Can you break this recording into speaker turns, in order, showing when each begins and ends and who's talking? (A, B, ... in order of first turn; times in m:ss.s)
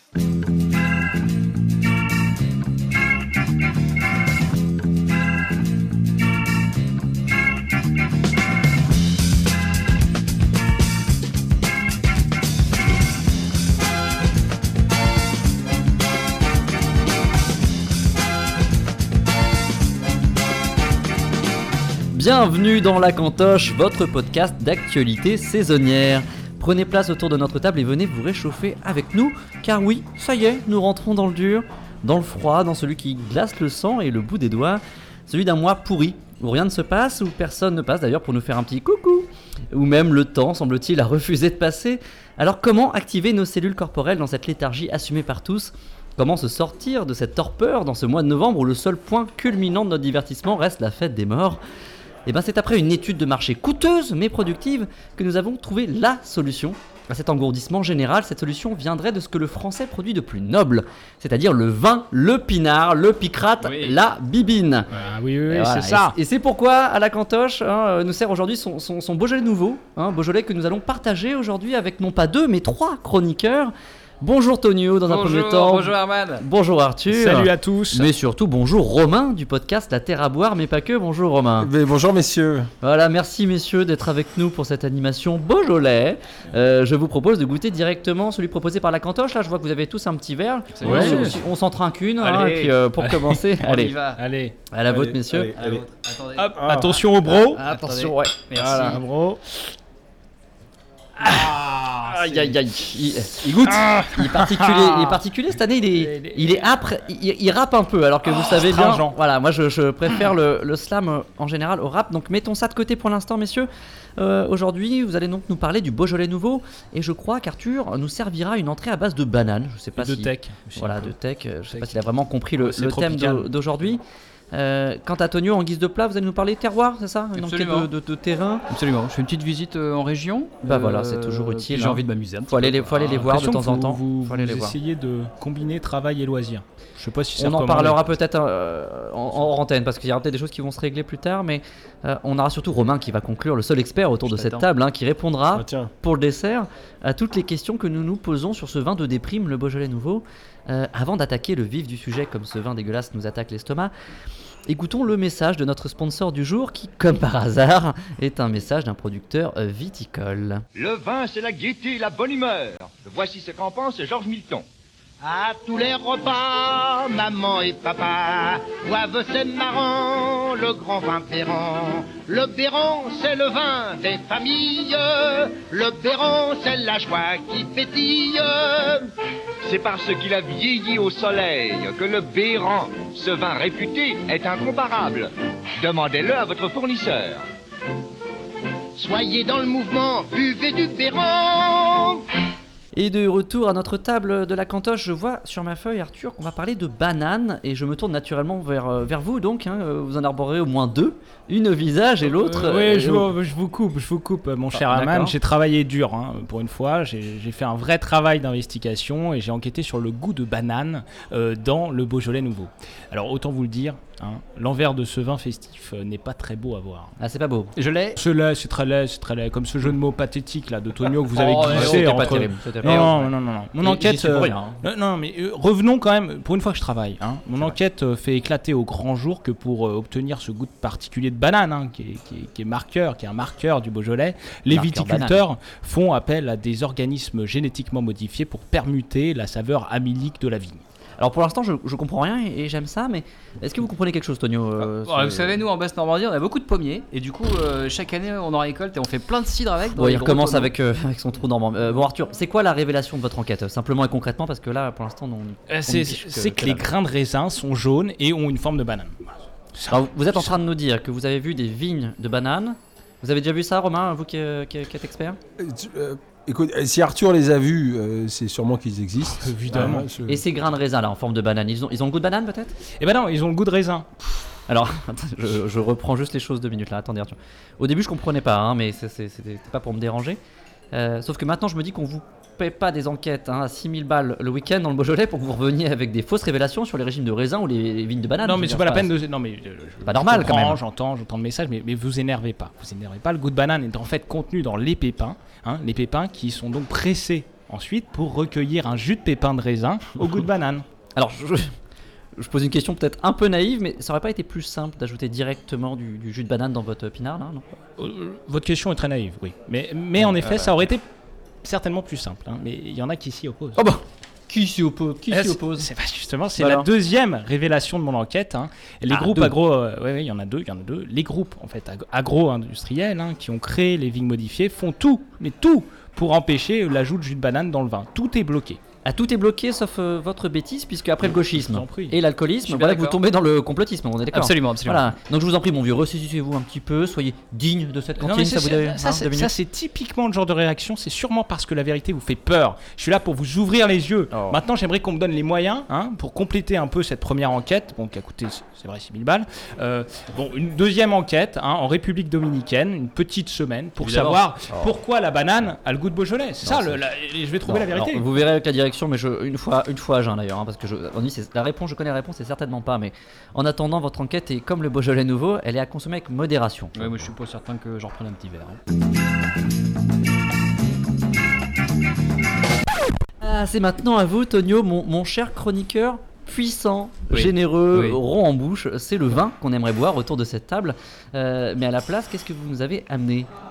0:22.1-0:51.6 A
0:52.2-1:04.9 A
1:03.6-1:04.0 B
1:04.9-1:06.2 C
1:05.5-1:21.7 A
1:15.1-1:16.4 B
1:17.1-1:18.1 C
1:21.6-1:22.7 D
1:22.8-1:33.9 A
1:30.8-1:31.4 B
1:30.8-1:31.4 C
1:32.2-1:32.7 B
1:33.0-1:34.6 C
1:33.6-1:34.2 B
1:34.7-1:35.5 A
1:34.8-1:35.9 D
1:35.6-1:39.0 B
1:36.4-1:39.4 C
1:36.5-1:37.0 D
1:37.8-1:38.2 A
1:41.2-1:42.5 C
1:42.1-1:43.4 A
1:43.4-1:43.9 D
1:43.4-1:45.2 C
1:44.1-2:04.0 A
1:45.9-1:46.7 C
1:48.4-1:49.1 C
2:00.0-2:01.1 C
2:01.7-2:03.5 C
2:04.5-2:08.6 A
2:07.4-2:07.9 B
2:08.7-2:13.1 B
2:10.6-2:14.7 A
2:13.0-2:18.0 C
2:17.4-2:33.9 A
2:24.2-2:24.6 B
2:25.5-2:25.9 D
2:34.7-2:40.6 A
2:40.8-2:44.6 E
2:45.2-2:59.1 F
2:59.6-3:07.4 E
3:09.0-3:12.2 F
3:12.9-3:23.3 A
3:22.2-3:37.1 C
3:24.7-3:25.3 A
3:37.2-3:37.7 A
3:37.8-4:00.8 C
3:41.4-3:42.0 B
3:41.5-3:43.3 A
3:42.8-3:43.1 B
3:43.8-3:44.8 A
3:54.7-3:55.4 A
4:01.2-4:05.6 A
4:04.8-4:10.7 B
4:09.9-4:16.8 A
4:15.7-4:20.6 C
4:19.9-4:25.4 A
4:25.6-4:30.4 D
4:29.3-4:30.1 C
4:30.3-4:32.8 A
4:33.0-4:34.1 C
4:34.7-4:40.4 A
4:40.9-4:49.1 A
4:48.4-5:00.8 C
4:50.0-4:50.8 A
5:01.2-5:01.7 A
5:02.4-5:07.6 A
5:08.0-5:11.0 C
5:10.2-5:10.8 A
5:11.6-5:13.8 C
5:13.8-5:15.9 A
5:15.3-5:28.8 C
5:16.6-5:16.9 A
5:19.1-5:19.5 A
5:29.0-5:39.5 A
5:31.2-5:32.2 C
5:32.6-5:33.2 B
5:34.3-5:35.1 B
5:38.2-5:58.2 C
5:44.3-5:44.6 A
5:54.0-5:55.0 A
5:56.6-5:57.0 A
5:57.6-6:07.3 A
6:06.9-6:08.8 B
6:13.4-6:23.5 A
6:17.3-6:18.2 B